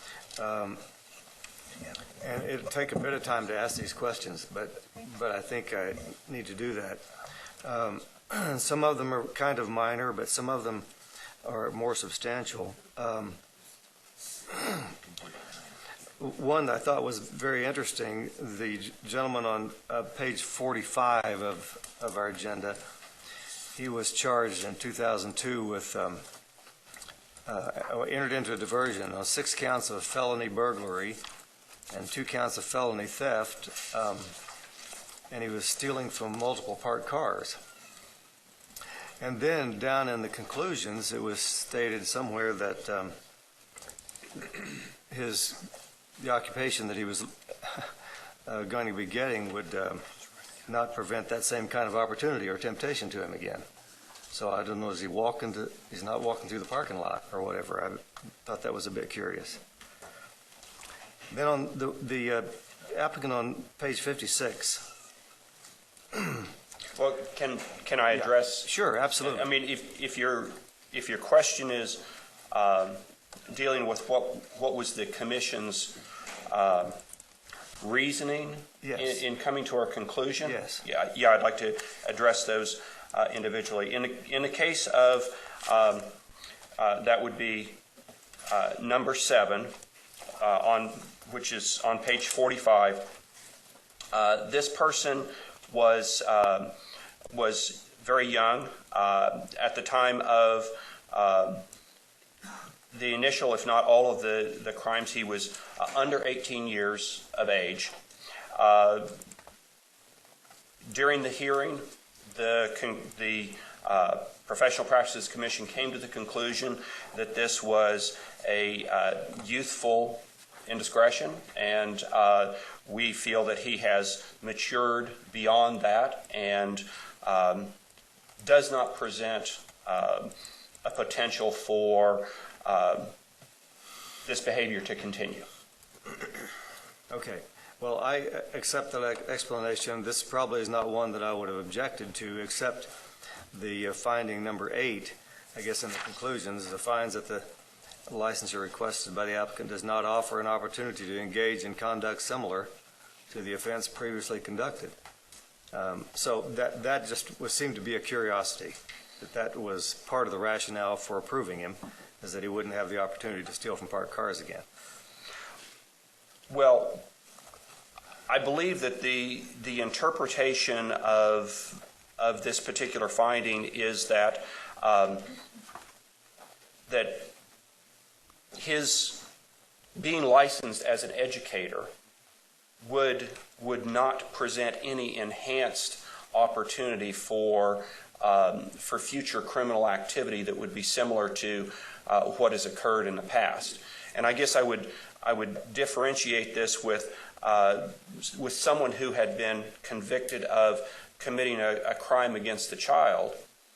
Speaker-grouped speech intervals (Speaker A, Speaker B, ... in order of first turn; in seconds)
Speaker A: 0.4-0.8, 2.2-7.0, 7.6-10.8, 11.4-13.4, 14.5-14.9, 16.2-22.8, 23.8-26.2, 27.4-31.2, 31.9-34.4, 35.3-37.6, 39.2-43.1, 45.1-47.9, 48.5-50.0, 50.7-53.6, 54.3-59.6, 61.3-64.9, 68.1-69.5, 78.8-79.2, 80.4-80.8, 137.1-142.9, 143.5-147.5, 148.1-152.7, 153.3-154.9, 155.7-164.6
Speaker B: 66.9-77.0, 77.8-86.1, 86.8-87.8, 88.5-89.7, 90.4-93.1, 94.1-96.7, 97.3-101.6, 102.9-107.9, 108.5-109.2, 110.8-127.7, 128.4-130.3, 130.8-133.1, 134.2-135.4, 166.5-167.0, 168.3-175.3, 176.9-177.3, 178.5-179.3, 179.9-181.9, 182.8-203.4